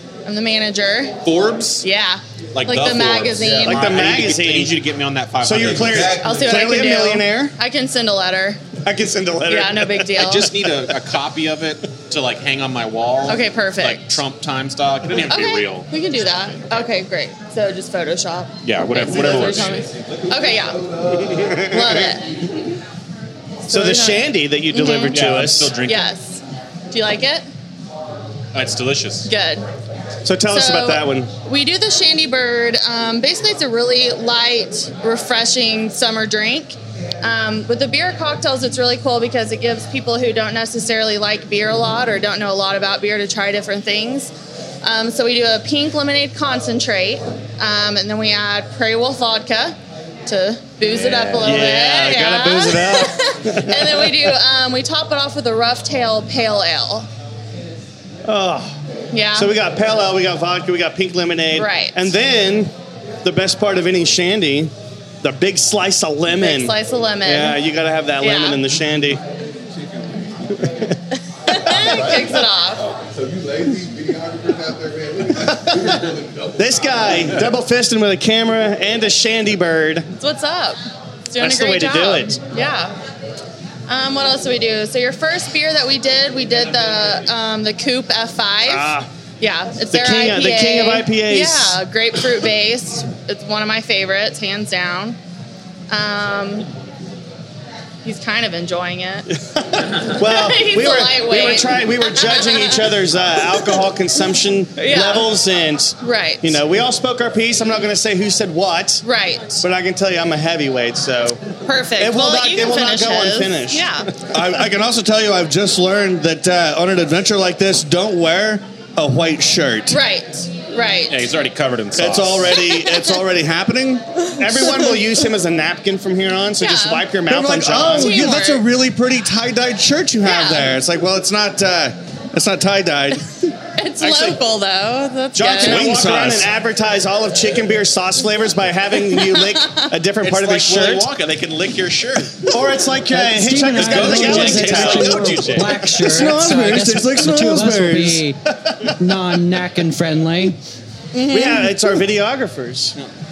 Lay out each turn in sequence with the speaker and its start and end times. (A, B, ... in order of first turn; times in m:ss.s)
0:00.2-0:01.2 A
0:01.2-0:01.8 B
0:01.8-0:04.3 A
0:02.5-0:06.2 B
0:03.6-0:04.8 C
0:05.4-0:07.5 C
0:05.6-0:06.5 D
0:06.2-0:08.6 A
0:08.8-0:10.3 C
0:09.5-0:10.5 A
0:10.2-0:15.9 B
0:13.3-0:14.2 A
0:15.3-0:20.8 A
0:18.6-0:19.9 B
0:19.9-0:21.5 D
0:21.3-0:21.8 C
0:21.7-0:22.3 A
0:23.7-0:25.2 A
0:23.7-0:25.8 C
0:25.1-0:26.1 B
0:25.8-0:27.5 A
0:28.5-0:29.3 B
0:29.3-0:29.7 A
0:30.2-0:31.3 C
0:30.5-0:44.3 A
0:44.8-0:57.1 A
0:50.9-0:51.5 B
0:51.4-0:53.9 C
0:58.2-0:58.8 C
0:59.1-0:59.5 A
0:59.3-1:02.7 C
1:01.5-1:02.1 A
1:03.2-1:06.7 C
1:06.4-1:07.6 A
1:07.3-1:09.2 C
1:08.2-1:08.6 A
1:11.5-1:12.8 A
1:13.0-1:17.2 D
1:16.6-1:20.1 C
1:20.2-1:23.0 A
1:21.4-1:22.4 C
1:23.9-1:35.2 A
1:28.6-1:29.1 C
1:29.9-1:31.8 C
1:35.9-1:36.7 A
1:38.0-1:39.3 A
1:39.8-1:49.0 C
1:40.2-1:43.0 A
1:44.8-1:45.3 A
1:46.0-1:46.6 A
1:49.0-1:49.6 A
1:49.6-1:51.4 C
1:51.7-1:54.1 A
1:52.0-1:53.9 C
1:54.2-2:00.0 E
1:59.9-2:01.3 A
2:01.1-2:02.6 B
2:02.0-2:04.0 E
2:02.6-2:03.2 A
2:04.4-2:08.4 C
2:06.6-2:07.1 A
2:07.3-2:13.3 E
2:07.8-2:08.7 A
2:10.2-2:10.7 A
2:13.8-2:15.9 A
2:14.0-2:14.3 B
2:15.4-2:16.5 E
2:15.4-2:21.1 C
2:19.2-2:19.9 A
2:20.2-2:22.5 B
2:22.5-2:26.3 C
2:23.1-2:28.4 F
2:23.7-2:28.2 E
2:23.8-2:25.8 B
2:29.0-2:30.6 F
2:31.2-2:31.7 A
2:31.2-2:33.0 C